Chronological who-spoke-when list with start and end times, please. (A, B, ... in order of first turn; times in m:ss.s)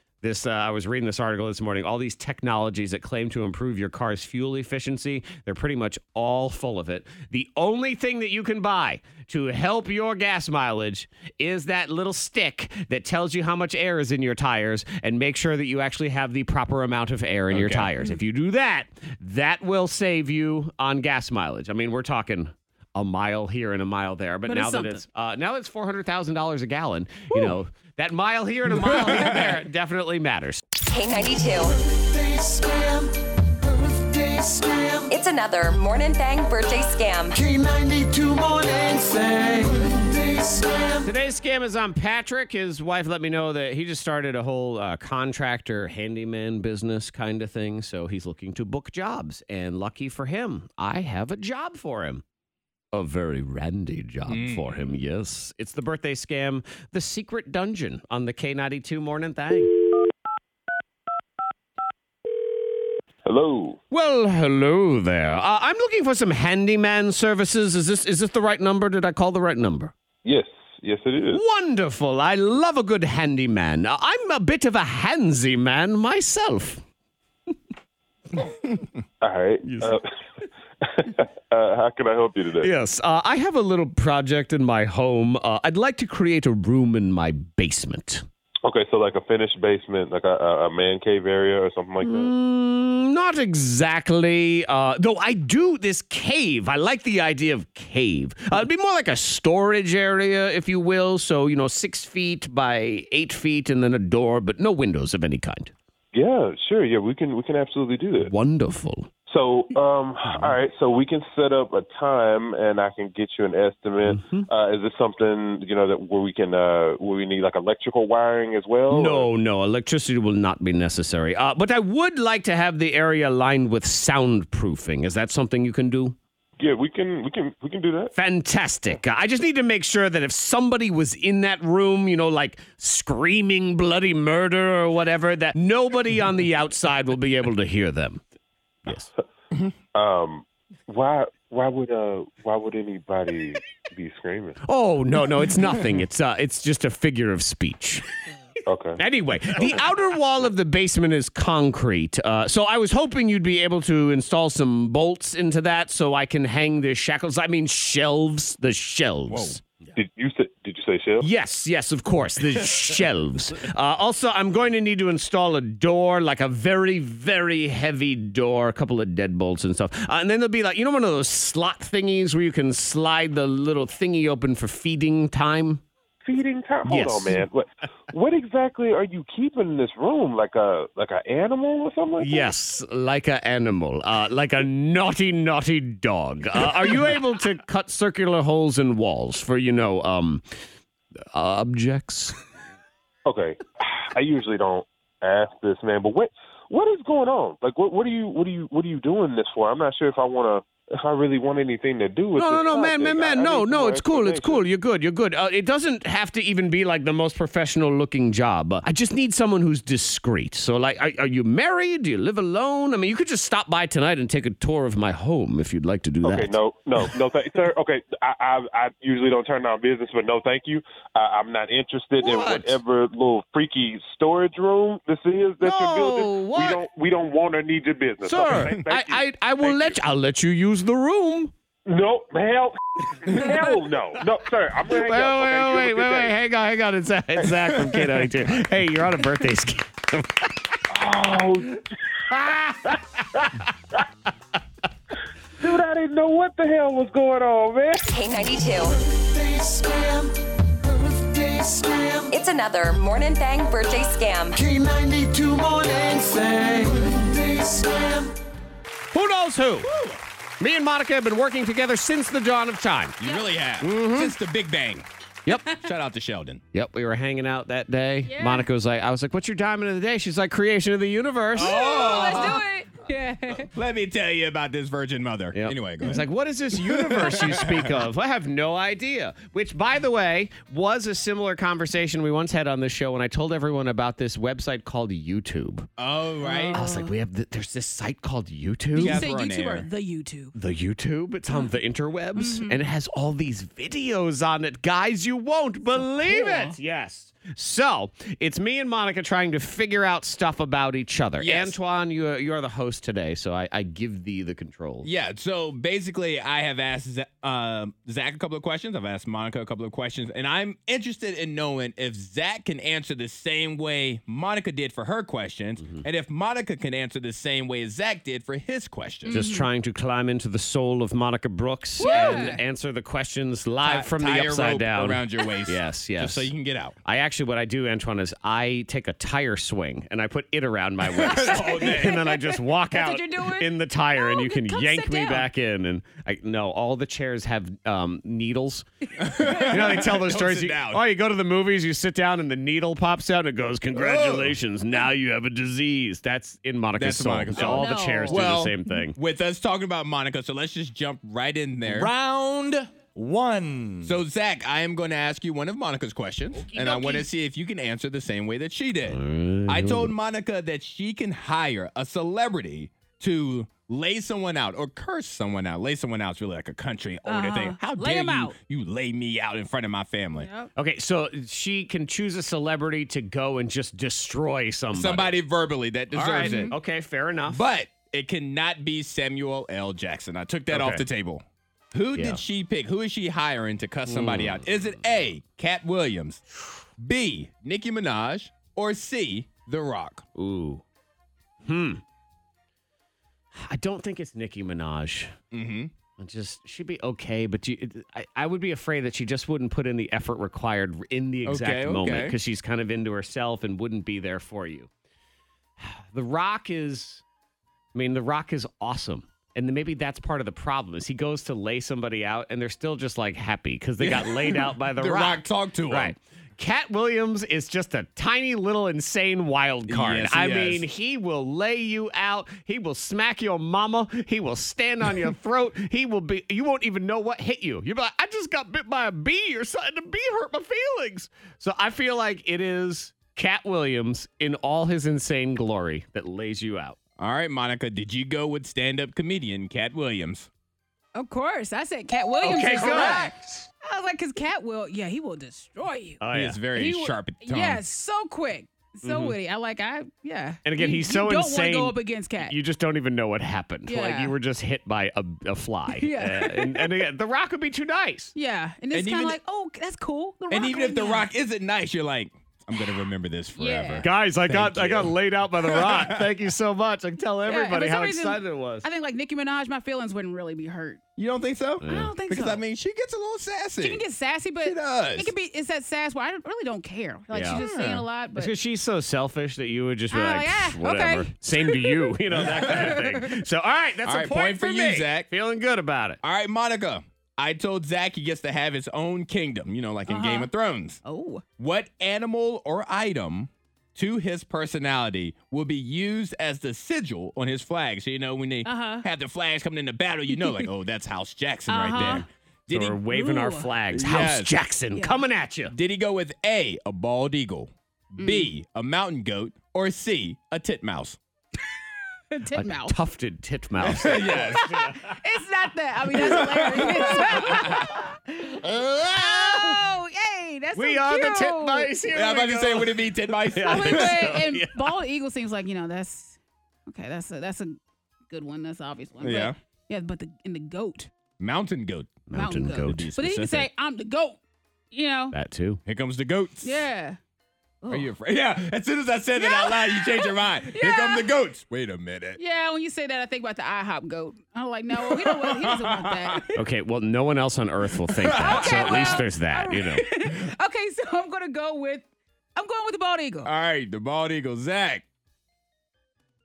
0:00.2-0:30.6 A
0:17.5-0:17.9 B
0:24.5-0:25.0 C
0:28.8-0:29.6 B
0:30.8-0:31.8 D
0:35.1-0:37.4 D
0:41.0-0:52.2 A
0:52.9-0:59.8 A
0:54.3-0:55.0 B
1:03.2-1:03.8 E
1:03.9-1:09.9 A
1:10.2-1:11.4 E
1:11.3-1:16.8 A
1:19.2-1:20.1 E
1:19.6-1:20.0 A
1:20.8-1:22.7 E
1:22.6-1:28.3 A
1:28.6-1:32.3 E
1:32.0-1:45.7 A
1:46.1-1:48.3 E
1:48.2-1:49.1 A
1:49.3-1:59.3 E
1:50.2-1:50.6 A
1:54.0-1:54.5 A
1:58.9-2:06.2 A
2:06.6-2:08.1 E
2:08.1-2:18.2 A
2:19.9-2:24.6 E
2:24.6-2:28.1 A
2:28.7-2:29.0 E
2:29.0-2:39.6 A
2:29.6-2:29.9 E
2:39.3-2:39.6 B
2:40.0-2:41.3 E
2:41.2-2:55.8 A
2:56.2-3:02.5 E
2:56.8-2:57.5 A
3:02.2-3:10.4 A
3:11.3-3:12.4 A
3:13.3-3:24.7 E
3:22.4-3:36.6 A
3:36.2-3:50.0 E
3:42.2-3:42.8 A
3:45.6-3:46.8 A
3:48.2-3:51.5 A
3:51.9-3:56.4 E
3:53.2-3:53.6 A
3:54.9-4:00.5 A
3:57.4-3:57.9 E
4:00.9-4:04.0 E
4:02.3-4:02.9 A
4:05.6-4:08.1 E
4:08.0-4:09.0 D
4:12.3-4:14.6 D
4:19.1-4:19.9 A
4:19.8-4:20.2 B
4:20.6-4:23.2 A
4:23.2-4:25.1 B
4:23.2-4:23.5 C
4:23.8-4:24.3 A
4:25.5-4:25.7 A
4:25.6-4:26.6 B
4:26.7-4:32.6 A
4:28.3-4:28.7 C
4:31.6-4:32.6 B
4:31.6-4:33.7 C
4:33.5-4:38.0 B
4:35.5-4:45.9 A
4:46.0-4:46.8 B
4:46.4-4:47.1 C
4:46.7-4:49.2 A
4:48.9-4:50.5 C
4:49.0-4:49.9 B
4:50.5-5:05.1 A
4:52.4-4:52.8 C
4:56.0-4:56.8 C
5:01.4-5:01.8 B
5:05.0-5:19.5 B
5:19.3-5:19.7 C
5:19.3-5:26.5 A
5:22.0-5:22.6 C
5:22.0-5:22.6 B
5:23.8-5:27.0 B
5:27.0-5:49.2 A
5:31.2-5:35.5 C
5:31.2-5:32.3 B
5:39.2-5:41.0 B
5:39.4-5:40.0 C
5:43.9-5:44.6 B
5:47.0-5:52.7 B
5:47.6-5:48.5 C
5:51.9-5:52.4 A
5:53.1-5:54.1 A
5:53.3-6:10.5 B
5:56.5-5:57.3 A
5:59.1-6:00.1 A
6:07.3-6:08.6 C
6:10.4-6:10.7 C
6:10.8-6:15.4 A
6:14.9-6:16.7 B
6:16.1-6:17.6 A
6:16.4-6:16.8 C
6:17.5-6:26.4 B
6:20.7-6:21.0 A
6:22.2-6:22.4 A
6:24.1-6:24.7 A
6:27.0-6:30.2 B
6:30.4-6:30.8 A
6:31.6-6:32.0 A
6:33.5-6:35.3 A
6:35.5-6:35.9 B
6:36.2-6:44.9 A
6:41.5-6:42.4 B
6:45.8-6:47.2 A
6:47.9-7:17.0 A
6:54.0-6:56.2 B
6:59.9-7:00.8 B
7:17.2-7:20.5 B
7:21.2-7:26.2 C
7:22.4-7:23.7 A
7:26.2-7:26.6 A
7:26.3-7:27.8 B
7:26.8-7:32.6 C
7:29.0-7:29.4 A
7:30.6-7:38.3 A
7:33.9-7:34.3 C
7:36.0-7:36.9 C
7:38.4-7:41.3 C
7:38.9-7:39.4 B
7:40.5-7:46.3 B
7:43.6-7:44.0 C
7:44.0-7:48.9 A
7:47.5-7:51.0 C
7:51.2-7:54.0 B
7:51.8-7:52.1 A
7:51.8-7:52.6 C
7:53.8-7:58.5 C
7:54.6-7:55.3 B
7:57.3-7:57.6 A
7:57.5-7:58.0 B
7:58.4-8:06.2 A
8:00.1-8:02.1 C
8:02.4-8:03.0 B
8:02.7-8:03.0 C
8:04.0-8:05.3 B
8:06.2-8:11.0 B
8:10.1-8:10.5 C
8:11.0-8:11.4 C
8:11.6-8:23.0 B
8:18.6-8:19.0 C
8:20.3-8:20.7 C
8:21.7-8:22.3 C
8:22.7-8:25.7 A
8:23.1-8:23.7 C
8:23.9-8:24.5 B
8:25.0-8:25.2 C
8:25.7-8:31.2 B
8:28.2-8:28.5 C
8:32.3-8:33.0 C
8:32.5-8:35.2 A
8:33.8-8:34.7 B
8:34.4-8:38.6 C
8:36.1-8:37.9 B
8:36.8-8:37.8 A
8:38.5-8:39.8 A
8:39.1-8:41.9 C
8:40.8-8:44.9 A
8:42.1-8:44.4 B
8:43.6-8:47.8 C
8:48.3-8:51.1 C
8:49.2-8:49.6 B
8:51.4-8:52.3 B
8:52.3-8:53.1 A
8:52.3-8:54.4 C
8:52.8-8:53.7 B
8:54.9-8:55.4 C
8:55.3-8:55.8 A
8:55.9-8:56.8 B
8:56.6-8:57.2 C
8:57.8-8:58.1 C
8:57.9-9:02.4 B
8:59.4-9:01.3 C
9:02.4-9:06.5 C
9:04.9-9:06.4 B
9:06.6-9:10.0 A
9:08.2-9:09.2 B
9:08.3-9:12.0 C
9:12.6-9:13.5 C
9:13.4-9:15.0 B